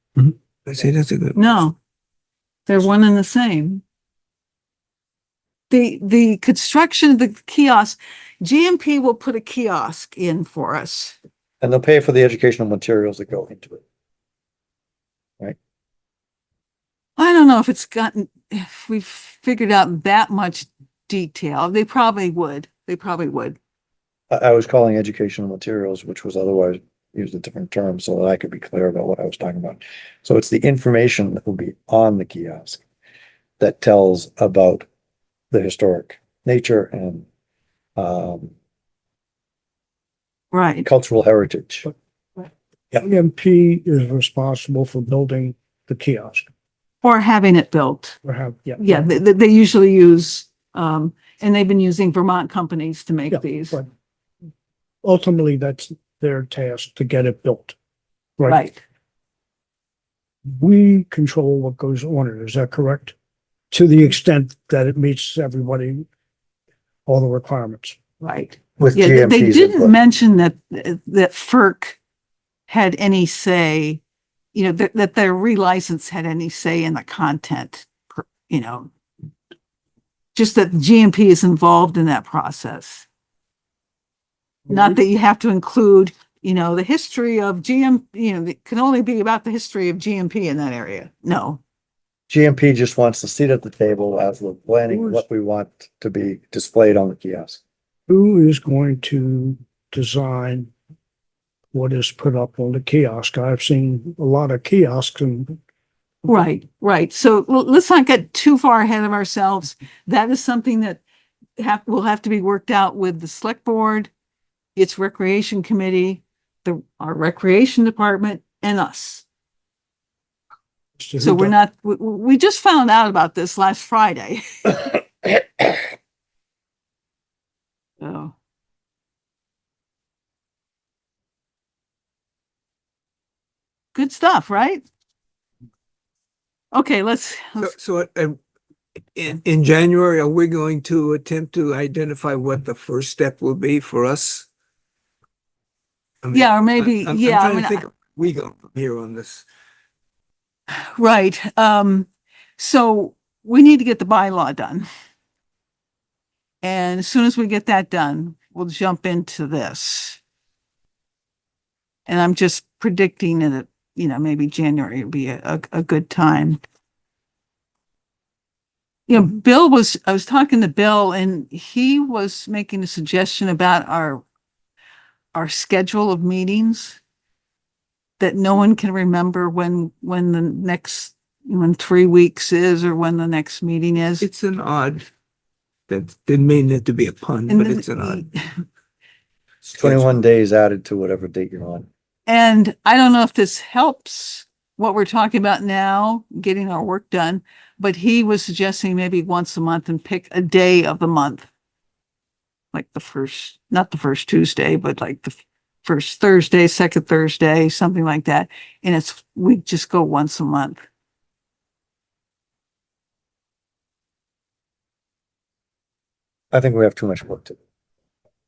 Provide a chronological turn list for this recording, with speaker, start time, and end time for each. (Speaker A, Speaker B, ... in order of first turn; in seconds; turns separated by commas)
Speaker A: 0.2-1.6, Speaker B: 1.4-1.8, Speaker B: 2.7-3.8, Speaker B: 5.7-11.2, Speaker C: 11.6-13.8, Speaker B: 17.2-23.6, Speaker C: 24.3-32.8, Speaker C: 33.6-34.9, Speaker C: 35.5-37.3, Speaker C: 38.0-38.5, Speaker B: 40.5-40.9, Speaker C: 40.8-41.9, Speaker D: 43.0-46.5, Speaker B: 47.0-48.2, Speaker D: 48.2-49.1, Speaker B: 48.8-53.8, Speaker D: 53.3-53.9, Speaker D: 55.0-57.8, Speaker B: 58.5-58.8, Speaker D: 60.5-63.1, Speaker D: 63.7-66.0, Speaker D: 67.1-68.0, Speaker B: 68.2-72.0, Speaker C: 68.8-70.0, Speaker B: 72.7-74.0, Speaker B: 74.5-78.9, Speaker B: 80.3-83.1, Speaker B: 84.7-91.6, Speaker C: 92.3-97.6, Speaker D: 94.9-95.2, Speaker D: 98.1-100.7, Speaker D: 101.7-105.6, Speaker B: 106.3-111.0, Speaker B: 111.6-114.1, Speaker B: 114.8-119.2, Speaker D: 121.0-121.6, Speaker B: 121.2-125.0, Speaker B: 128.0-128.3, Speaker B: 133.9-134.8, Speaker B: 136.7-137.7, Speaker A: 137.6-138.4, Speaker A: 139.2-144.5, Speaker A: 146.2-149.5, Speaker B: 146.3-147.8, Speaker B: 150.7-154.9, Speaker B: 156.6-160.2, Speaker B: 162.1-166.6, Speaker B: 169.1-174.2, Speaker B: 175.3-177.0, Speaker B: 178.2-184.3, Speaker A: 184.2-185.1, Speaker A: 185.9-188.2, Speaker B: 187.5-188.4, Speaker C: 189.6-191.9, Speaker A: 189.8-190.1, Speaker B: 192.3-201.5, Speaker B: 202.7-210.9, Speaker C: 216.5-217.6